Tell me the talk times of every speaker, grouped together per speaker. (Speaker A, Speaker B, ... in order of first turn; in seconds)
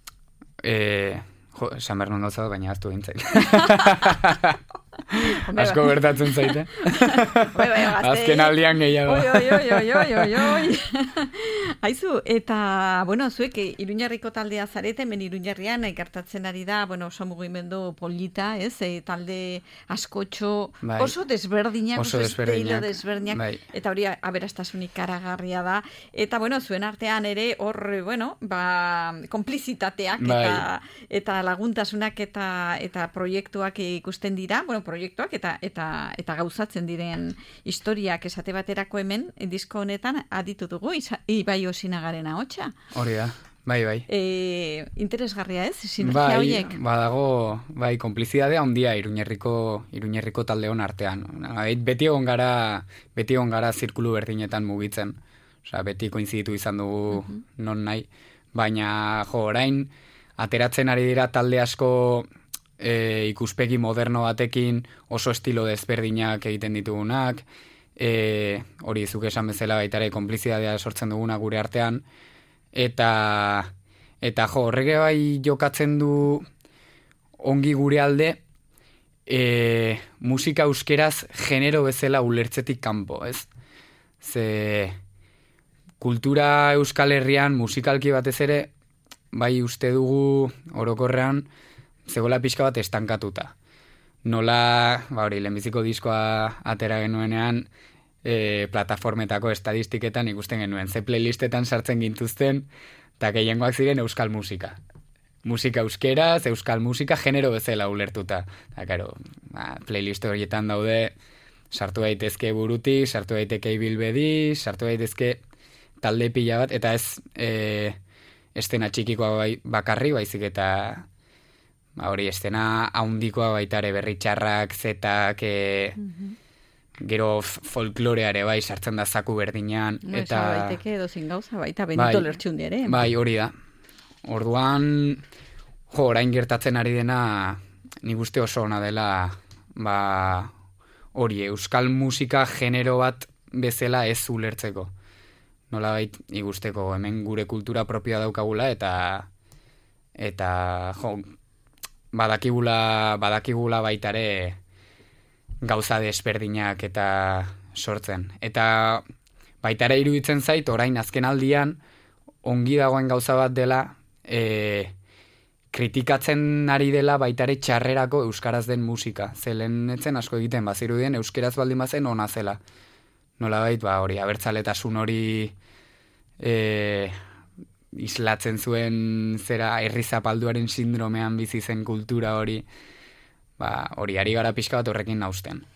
Speaker A: 0.6-10.7, 20.8-21.1, 22.0-23.6, 30.2-30.7, 42.9-44.1, 46.0-62.3, 62.8-67.5, 68.0-72.0, 72.7-76.5, 77.4-78.4, 79.3-83.5, 84.2-85.0, 86.0-88.7, 89.3-91.5, 92.1-93.5, 94.2-97.7, 98.2-102.7, 103.2-104.8, 105.4-111.2, 111.7-115.4, 116.0-118.0, 118.5-121.1, 122.0-126.0, 127.0-130.8, 131.9-132.3, 132.9-133.5, 134.2-135.2, 135.9-140.5, 141.2-144.9, 145.7-149.3, 150.2-151.2, 152.1-154.6, 155.6-159.1, 159.6-161.8, 162.4-164.9, 165.7-172.6, 173.4-175.5, 176.4-177.2, 177.9-182.7, 183.6-185.7
Speaker B: 3.5-3.9, 5.1-42.7, 44.1-46.8, 126.0-126.3, 130.1-133.0